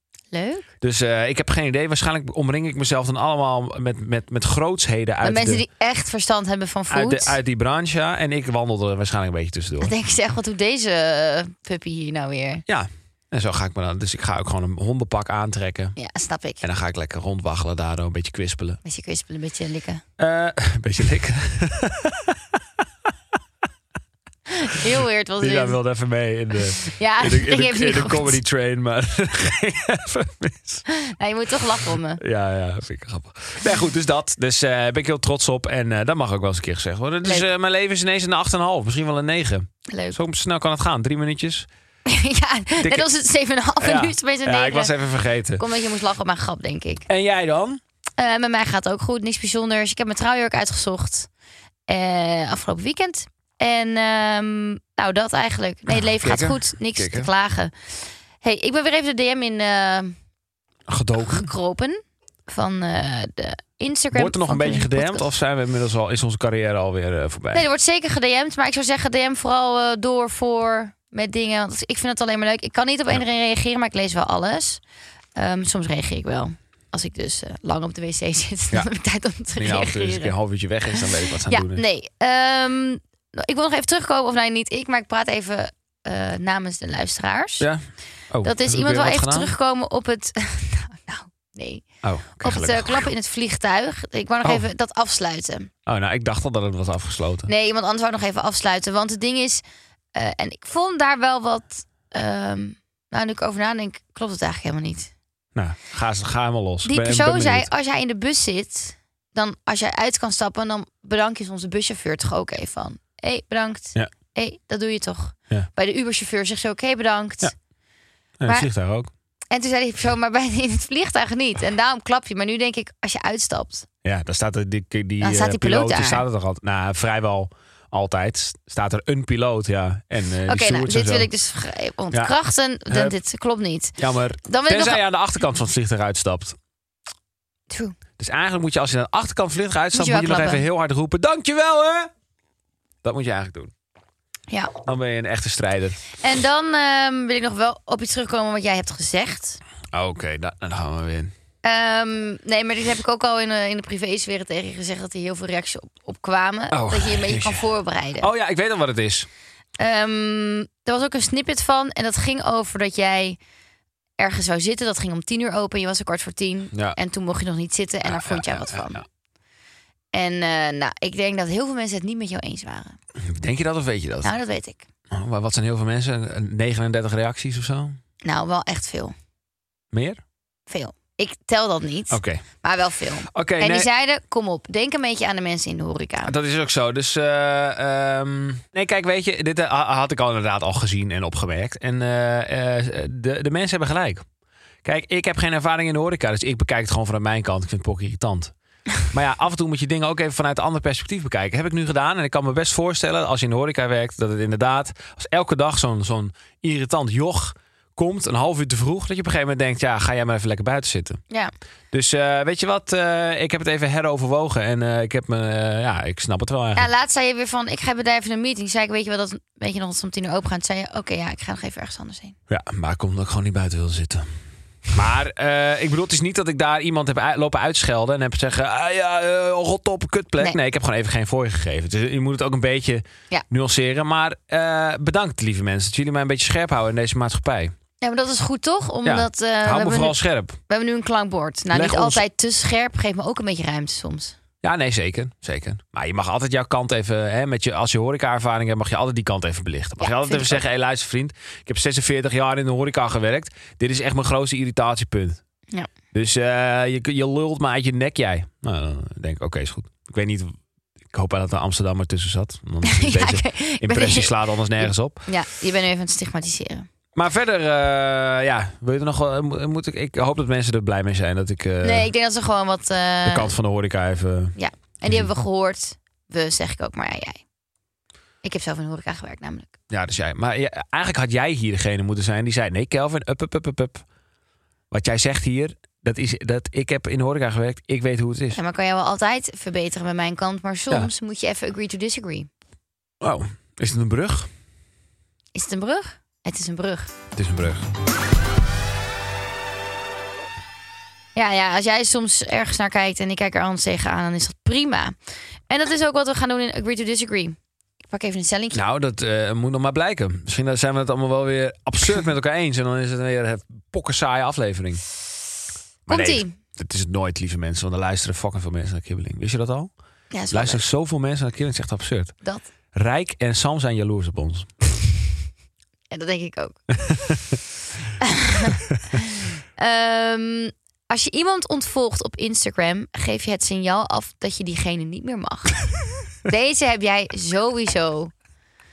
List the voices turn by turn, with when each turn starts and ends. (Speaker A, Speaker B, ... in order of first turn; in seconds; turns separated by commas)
Speaker A: 0.3-0.7, Speaker B: 0.8-5.6, Speaker A: 5.2-7.4, Speaker B: 6.9-9.9, Speaker A: 9.8-12.6, Speaker B: 12.7-15.9, Speaker A: 16.0-16.6, Speaker B: 16.6-18.8, Speaker A: 18.9-20.0, Speaker B: 20.2-22.4, Speaker A: 24.5-25.8, Speaker B: 25.4-30.8, Speaker A: 26.9-28.4, Speaker A: 30.9-32.2, Speaker B: 32.2-41.7, Speaker A: 39.9-40.2, Speaker A: 42.1-44.9, Speaker B: 43.8-45.6, Speaker A: 45.6-47.1, Speaker B: 47.1-47.8, Speaker A: 48.2-51.3, Speaker A: 51.9-60.2, Speaker B: 55.9-57.3, Speaker B: 60.9-61.5, Speaker A: 61.2-65.3, Speaker B: 64.2-67.7, Speaker A: 67.5-74.8, Speaker A: 75.4-80.3, Speaker B: 79.6-81.8, Speaker A: 81.0-87.7, Speaker B: 87.6-89.5, Speaker A: 88.4-91.9, Speaker B: 92.0-93.1, Speaker A: 92.4-95.7, Speaker B: 95.9-97.5, Speaker A: 97.5-99.6, Speaker A: 100.1-105.1, Speaker B: 105.5-107.7, Speaker A: 106.8-117.5, Speaker B: 118.4-119.1, Speaker A: 119.5-123.9, Speaker B: 124.0-131.3, Speaker A: 125.2-126.2, Speaker A: 130.5-133.9, Speaker B: 134.0-136.6, Speaker A: 134.4-135.0, Speaker A: 137.7-137.9, Speaker B: 138.2-142.1, Speaker A: 139.9-140.7, Speaker B: 143.0-143.7, Speaker B: 144.8-146.0, Speaker A: 146.2-149.6, Speaker B: 149.9-151.3, Speaker A: 151.6-158.3, Speaker B: 156.7-157.7, Speaker B: 158.2-159.3, Speaker A: 159.8-163.4, Speaker A: 164.2-169.0, Speaker B: 166.7-167.0, Speaker B: 168.1-169.0, Speaker A: 170.1-173.0, Speaker B: 173.2-174.3, Speaker A: 174.2-174.8, Speaker B: 175.1-178.0, Speaker A: 178.2-179.1, Speaker B: 179.9-180.2, Speaker A: 180.7-186.3, Speaker B: 182.1-182.4, Speaker B: 183.3-183.9, Speaker B: 186.2-194.2, Speaker B: 194.8-211.2, Speaker B: 211.9-216.9, Speaker A: 216.8-222.4, Speaker B: 222.5-224.3, Speaker B: 224.9-237.7, Speaker A: 238.0-240.2, Speaker B: 239.1-240.6, Speaker A: 240.7-244.3, Speaker B: 241.7-242.2, Speaker B: 244.6-255.4, Speaker A: 250.0-250.6, Speaker B: 256.1-260.5, Speaker B: 261.1-265.3, Speaker A: 262.8-266.9, Speaker B: 267.1-272.1, Speaker A: 271.8-273.5, Speaker B: 273.2-275.3, Speaker A: 274.6-277.4, Speaker A: 278.4-279.7, Speaker B: 279.9-284.0, Speaker B: 284.9-288.6, Speaker A: 288.5-292.5, Speaker B: 293.2-294.5, Speaker A: 295.5-297.1, Speaker B: 297.4-297.9, Speaker A: 301.4-305.2, Speaker A: 305.7-307.6, Speaker A: 308.1-308.8, Speaker B: 308.7-315.1, Speaker B: 316.1-319.9, Speaker A: 316.1-316.5, Speaker A: 320.3-320.8, Speaker B: 320.5-322.3, Speaker B: 322.9-324.9, Speaker A: 326.1-326.8, Speaker B: 327.1-327.3, Speaker A: 328.2-328.8, Speaker A: 329.8-335.9, Speaker A: 336.4-338.3